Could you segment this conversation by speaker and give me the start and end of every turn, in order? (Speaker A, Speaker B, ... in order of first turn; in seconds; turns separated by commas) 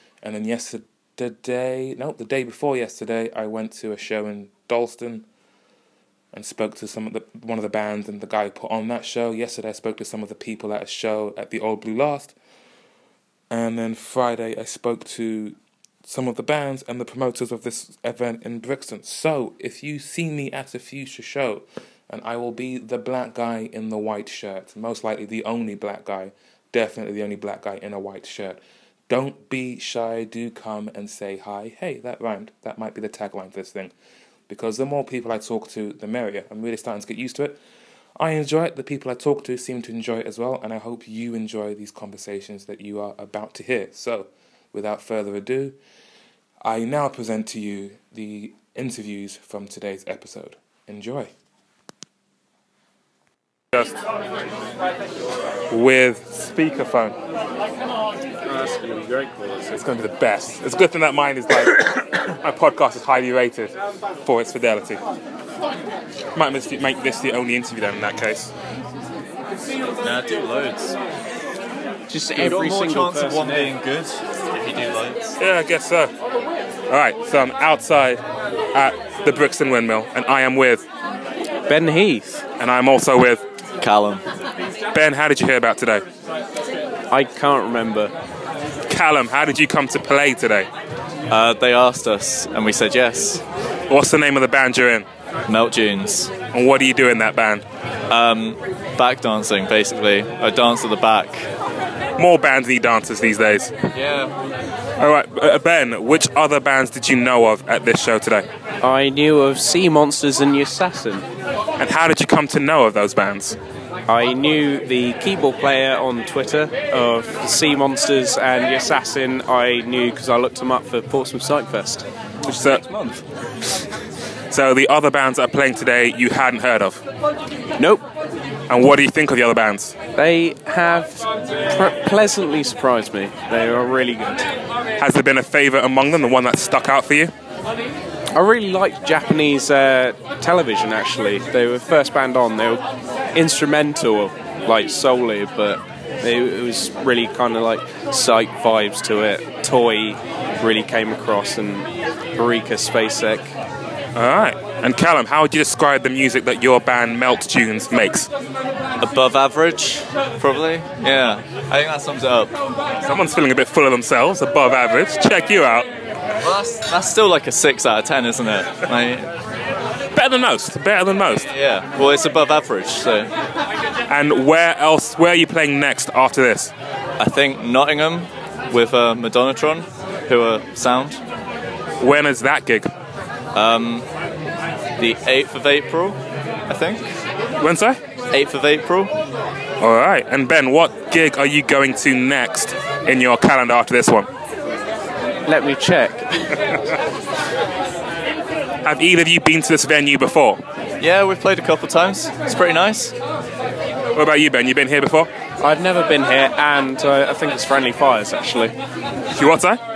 Speaker A: 0.2-5.2, Speaker A: 6.3-12.3, Speaker A: 13.5-33.9, Speaker A: 34.5-37.6, Speaker A: 38.2-45.8, Speaker A: 46.6-51.3, Speaker A: 53.7-54.0, Speaker A: 55.7-57.1, Speaker B: 59.0-59.4, Speaker A: 59.7-65.0, Speaker A: 66.3-68.5, Speaker C: 70.0-71.0, Speaker B: 72.1-73.8, Speaker C: 72.3-75.3, Speaker A: 75.4-76.1, Speaker A: 76.9-80.8, Speaker B: 81.7-82.4, Speaker A: 82.6-83.4, Speaker C: 83.8-84.2, Speaker A: 84.9-86.0, Speaker B: 87.1-88.1, Speaker A: 88.9-90.7, Speaker C: 91.3-93.4, Speaker A: 93.9-95.0, Speaker C: 95.5-96.3, Speaker A: 96.5-97.6, Speaker C: 98.1-101.5, Speaker A: 102.2-103.7, Speaker C: 103.9-104.3, Speaker A: 105.0-108.5, Speaker B: 108.8-111.3, Speaker A: 111.8-113.6, Speaker B: 114.1-122.0, Speaker A: 122.5-122.9, Speaker B: 122.7-123.0, Speaker A: 124.5-127.0, Speaker B: 127.8-128.0, Speaker A: 128.7-129.9, Speaker B: 130.2-134.5, Speaker A: 135.0-137.3, Speaker B: 138.3-153.6, Speaker A: 154.1-158.3, Speaker C: 159.0-162.6, Speaker A: 163.0-165.9, Speaker C: 166.4-169.3, Speaker A: 170.1-171.5, Speaker C: 171.5-173.3, Speaker A: 174.1-176.7, Speaker C: 177.2-181.2, Speaker A: 182.0-182.9, Speaker C: 183.5-184.1, Speaker C: 185.0-187.0, Speaker A: 187.6-188.0, Speaker C: 188.3-189.1, Speaker A: 189.8-194.3, Speaker B: 195.4-196.5, Speaker A: 198.8-200.6, Speaker C: 201.0-203.2, Speaker A: 204.1-205.3, Speaker B: 205.6-208.7, Speaker A: 209.3-209.8